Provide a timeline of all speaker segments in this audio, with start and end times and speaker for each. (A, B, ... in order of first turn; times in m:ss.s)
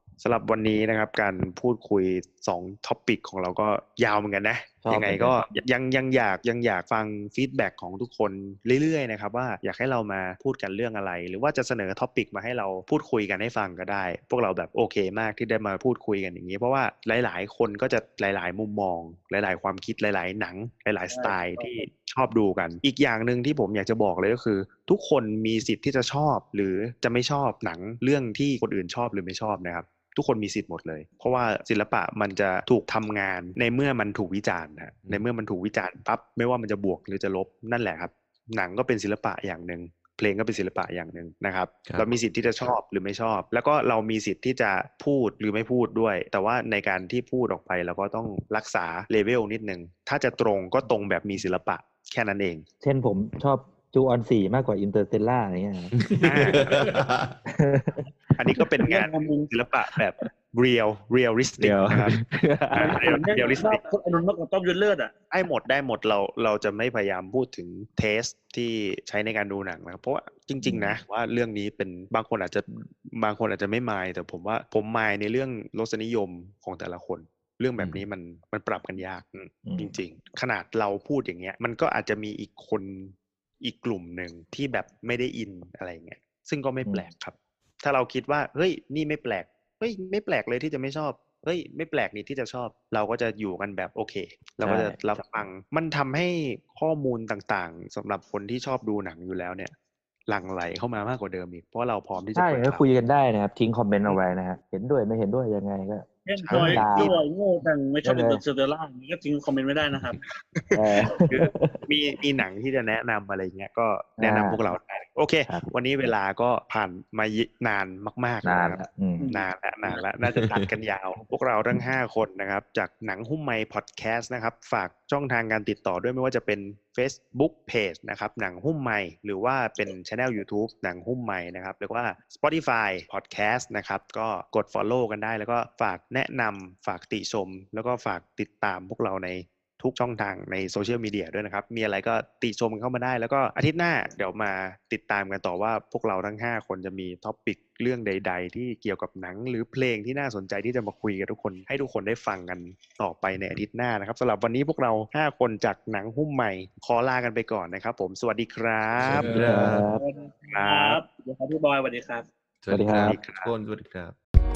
0:00.2-0:52.6 A
0:04.8-0:05.4 B
0:21.1-0:21.8 C
0:41.8-0:42.1 D
0:52.8-0:55.9 B
0:56.0-0:57.4 D
0:56.2-0:56.9 A
0:57.5-0:58.6 B
0:58.4-1:02.2 A
0:58.8-0:59.5 C
1:01.6-1:03.1 B
1:02.7-1:03.8 A
1:02.8-1:05.1 C
1:05.3-1:39.7 A
1:10.6-1:11.0 B
1:19.6-1:20.0 B
1:34.6-1:35.0 B
1:40.3-1:42.8 A
1:42.3-1:47.2 B
1:46.3-1:50.2 C
1:46.4-1:47.2 A
1:48.0-1:48.4 B
1:50.2-1:50.8 A
1:50.7-1:51.9 B
1:51.3-2:39.5 A
1:54.2-1:54.6 B
1:55.5-1:56.1 B
1:58.4-1:59.3 B
1:59.2-2:00.0 C
2:00.3-2:00.6 D
2:39.0-2:39.9 D
2:39.3-2:40.0 B
2:39.9-2:42.3 C
2:40.5-2:41.0 A
2:42.6-2:44.2 D
2:42.7-2:43.2 B
2:43.0-2:43.5 A